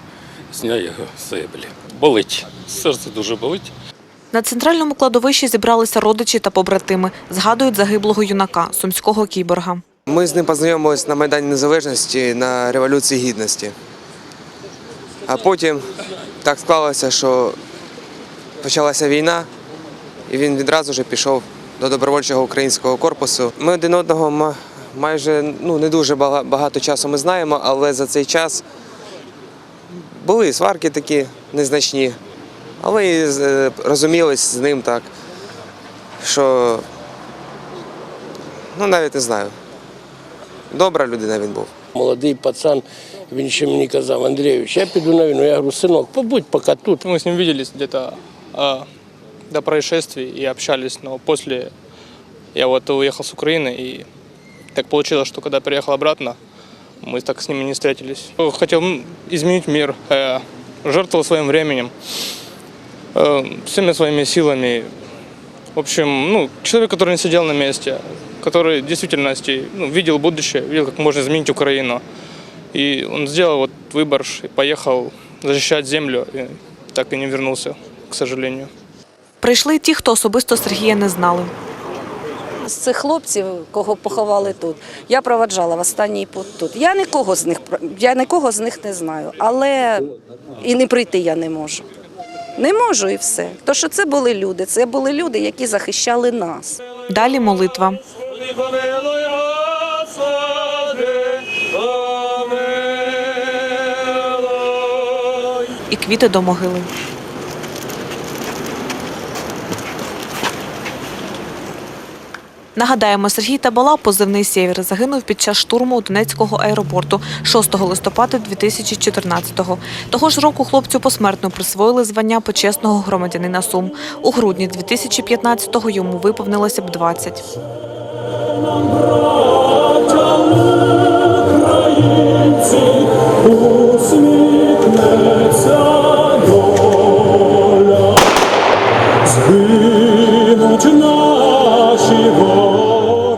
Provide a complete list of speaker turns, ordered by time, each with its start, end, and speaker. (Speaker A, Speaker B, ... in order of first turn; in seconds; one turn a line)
Speaker A: 0.5-3.7
Speaker B: 4.3-9.8
Speaker C: 10.1-13.8
Speaker C: 15.2-17.6
Speaker C: 18.6-19.5
Speaker C: 20.3-28.6
Speaker C: 30.1-32.2
Speaker C: 32.8-35.1
Speaker C: 36.2-36.9
Speaker C: 38.8-39.5
Speaker C: 40.7-41.7
Speaker D: 42.0-47.0
Speaker E: 47.0-48.9
Speaker E: 49.5-51.7
Speaker E: 52.5-54.1
Speaker E: 54.7-56.4
Speaker E: 57.0-61.9
Speaker E: 63.1-64.9
Speaker E: 65.8-72.0
Speaker E: 72.7-78.7
Speaker B: 79.4-81.5
Speaker F: 82.6-91.9
Speaker F: 92.6-96.8
Speaker B: 97.1-98.0
Speaker B: 105.9-106.9
Speaker B: 112.8-127.5
Speaker E: 140.1-140.6